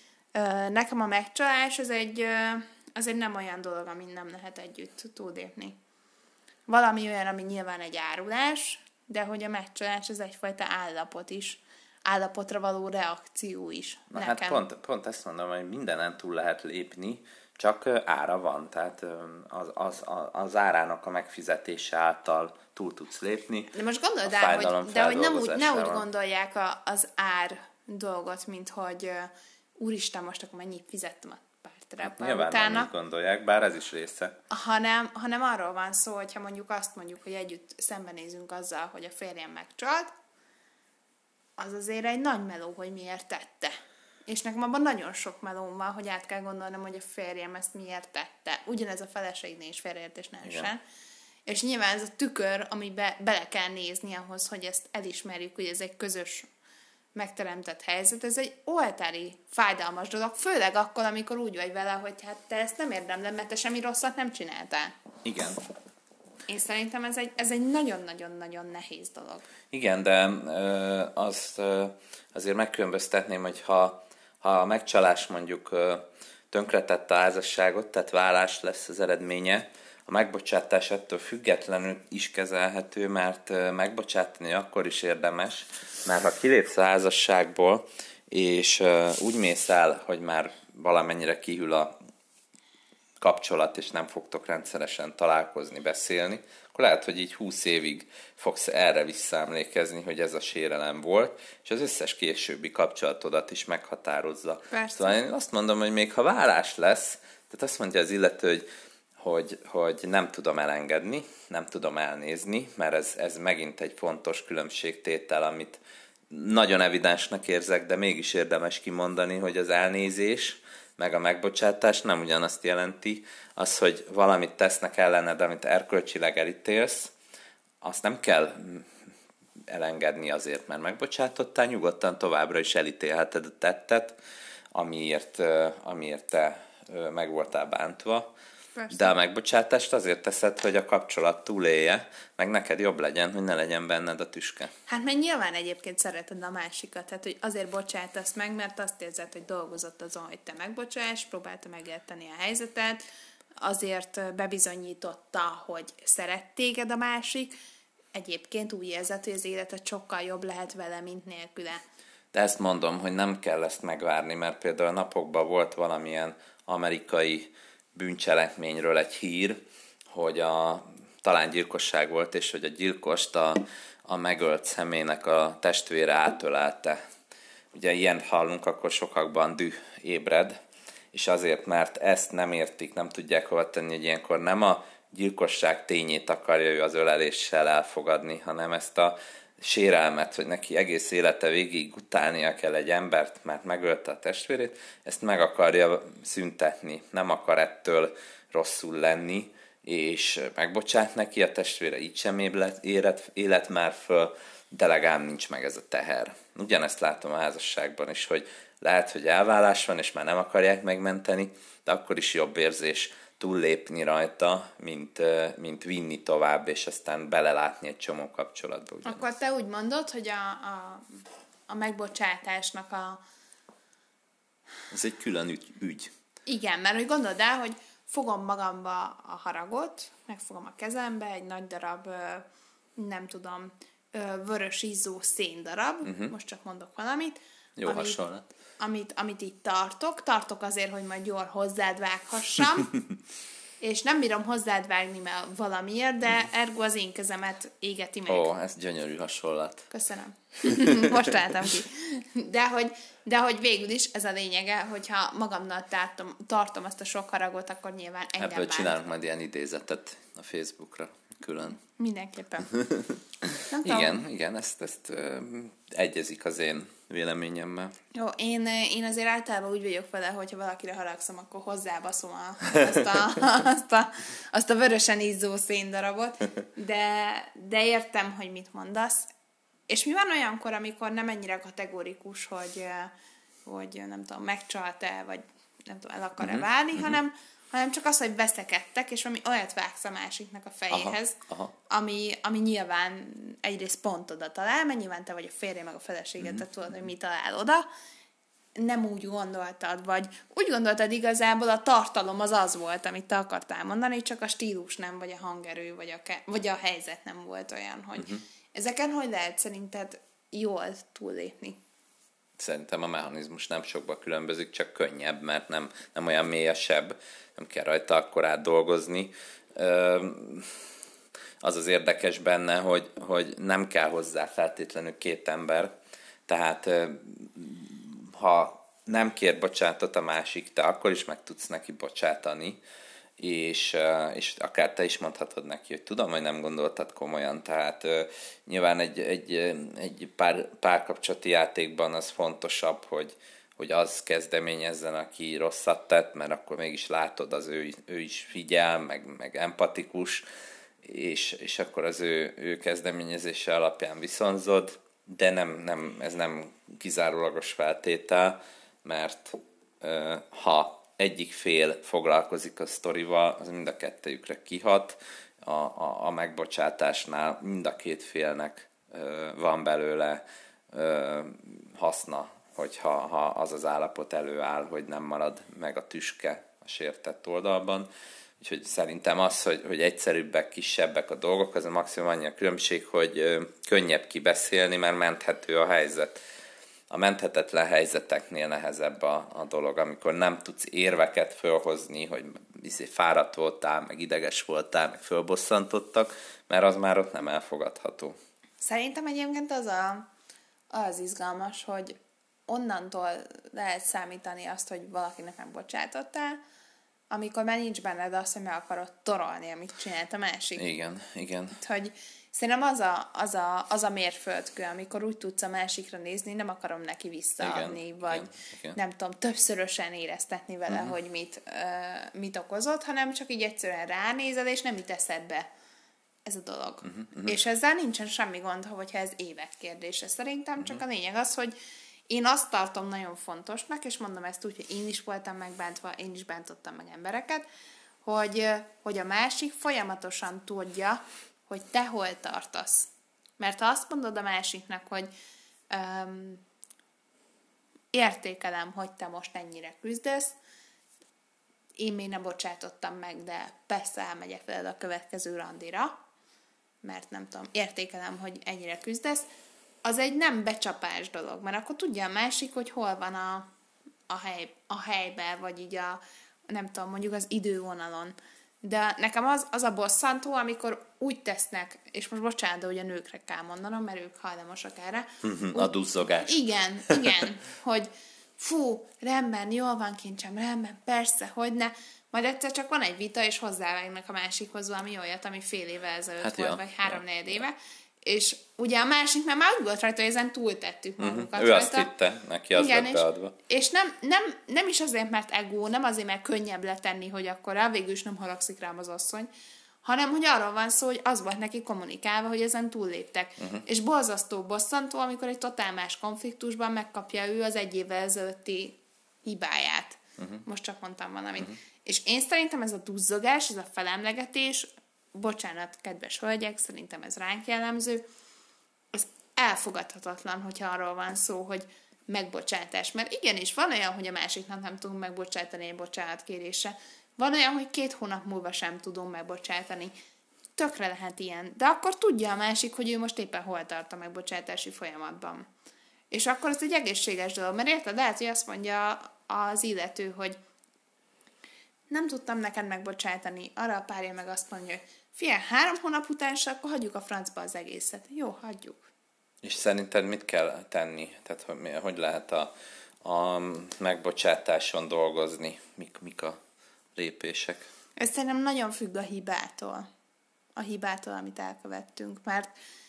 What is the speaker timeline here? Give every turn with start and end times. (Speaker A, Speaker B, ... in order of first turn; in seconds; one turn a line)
Speaker A: 0.3-5.8
Speaker A: 6.7-14.6
Speaker B: 14.1-26.1
Speaker A: 23.7-32.9
Speaker B: 32.0-34.3
Speaker A: 34.5-40.1
Speaker A: 41.6-43.7
Speaker A: 44.2-50.8
Speaker B: 50.4-50.7
Speaker A: 51.5-56.5
Speaker A: 57.1-64.9
Speaker B: 65.2-65.6
Speaker A: 66.5-69.5
Speaker B: 69.7-91.9
Speaker B: 93.2-108.7
Speaker A: 104.7-105.2
Speaker B: 109.2-127.1
Speaker B: 127.8-128.9
Speaker B: 129.7-134.2
Speaker B: 134.7-138.3
Speaker A: 138.8-139.1
Speaker B: 138.9-144.7
Speaker A: 144.9-153.0
Speaker A: 153.6-157.5
Speaker A: 158.1-161.8
Speaker B: 162.3-169.6
Speaker B: 170.1-177.0
Speaker B: 177.7-180.5
Speaker B: 181.1-219.2
Speaker A: 219.0-223.2
Speaker B: 224.9-226.1
Speaker A: 226.4-238.2
Speaker B: 236.0-236.3
Speaker B: 237.8-238.4
Speaker A: 238.8-243.0
Speaker A: 243.8-248.5
Speaker B: 248.3-249.9
Speaker A: 249.9-259.1
Speaker B: 250.7-251.1
Speaker B: 258.4-261.8
Speaker A: 261.8-262.7
Speaker B: 262.7-267.9
Speaker A: 263.7-264.2
Speaker A: 268.1-279.3
Speaker A: 279.9-283.1
Speaker A: 283.6-291.4
Speaker B: 286.4-287.2
Speaker B: 290.9-291.7
Speaker A: 291.9-297.9
Speaker A: 298.8-311.8
Speaker B: 308.2-308.4
Speaker B: 312.6-320.8
Speaker B: 321.6-325.9
Speaker B: 326.5-332.8
Speaker B: 333.4-350.4
Speaker B: 351.0-378.1
Speaker B: 378.6-386.4
Speaker B: 387.1-398.4
Speaker A: 398.8-400.3
Speaker A: 400.9-402.1
Speaker A: 402.7-406.6
Speaker A: 407.3-410.8
Speaker B: 410.8-411.8
Speaker A: 411.8-425.6
Speaker B: 417.6-419.0
Speaker B: 420.9-421.1
Speaker A: 426.4-431.7
Speaker B: 427.0-427.6
Speaker A: 432.3-437.6
Speaker A: 438.2-445.3
Speaker A: 445.9-446.6
Speaker A: 448.1-450.5
Speaker A: 452.0-456.1
Speaker A: 457.0-459.5
Speaker A: 460.0-463.7
Speaker A: 464.3-475.9
Speaker B: 475.4-476.6
Speaker A: 476.4-492.1
Speaker B: 486.4-487.2
Speaker B: 491.2-493.6
Speaker A: 492.7-499.5
Speaker A: 500.0-518.2
Speaker A: 519.1-530.1
Speaker A: 530.8-535.6
Speaker A: 536.3-540.6
Speaker A: 542.1-549.1
Speaker B: 549.6-552.7
Speaker B: 553.2-556.6
Speaker B: 557.1-557.9
Speaker A: 558.2-560.1
Speaker A: 560.8-562.7